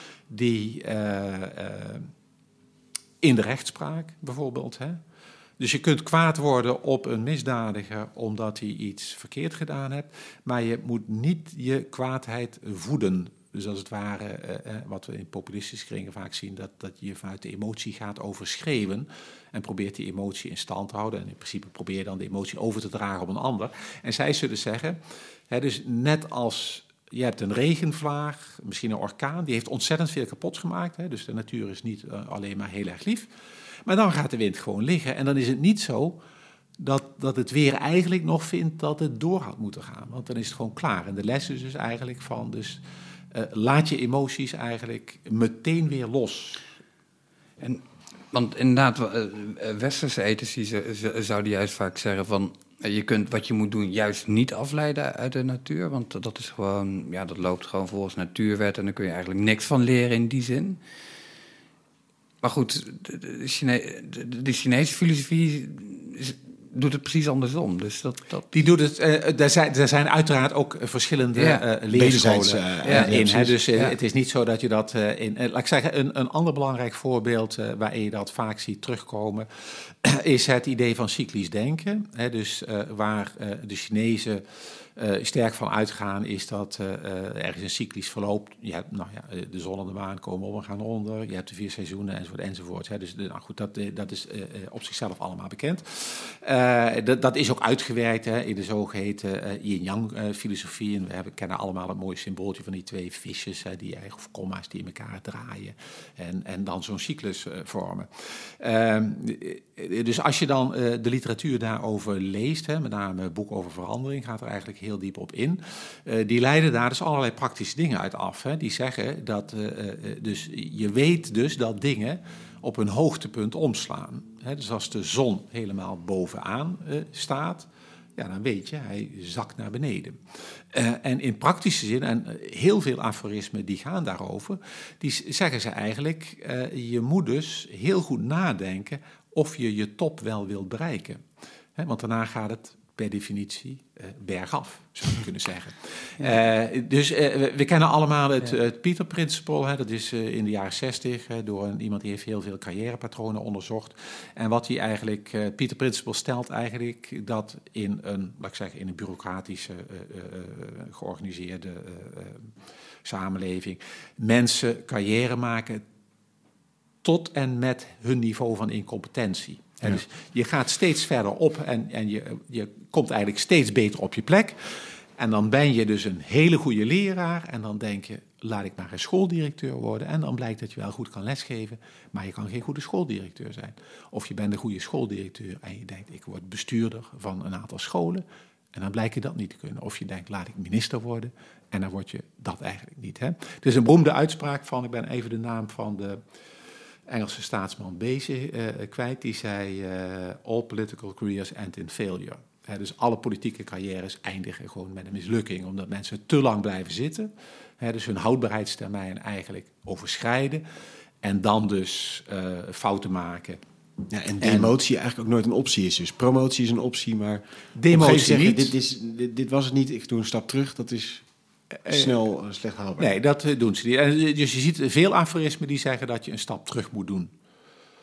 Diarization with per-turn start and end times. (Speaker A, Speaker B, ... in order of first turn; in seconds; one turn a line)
Speaker A: 0.3-2.1
Speaker A: 3.2-5.0
Speaker A: 5.6-25.0
Speaker A: 25.5-33.3
Speaker A: 33.9-36.2
Speaker A: 36.8-42.8
Speaker A: 43.3-46.6
Speaker B: 47.6-60.8
Speaker B: 62.4-68.5
Speaker A: 68.5-84.4
Speaker B: 71.3-71.6
Speaker C: 71.9-73.6
Speaker B: 72.8-73.1
Speaker A: 85.0-130.2
Speaker A: 130.7-141.2
Speaker A: 141.8-162.5
Speaker A: 163.0-165.8
Speaker A: 167.0-174.6
Speaker A: 175.2-196.2
Speaker A: 197.1-210.6
Speaker A: 211.2-213.6
Speaker C: 214.1-221.2
Speaker A: 214.4-214.7
Speaker A: 217.8-218.7
Speaker A: 221.8-222.1
Speaker C: 221.9-223.1
Speaker A: 223.0-227.3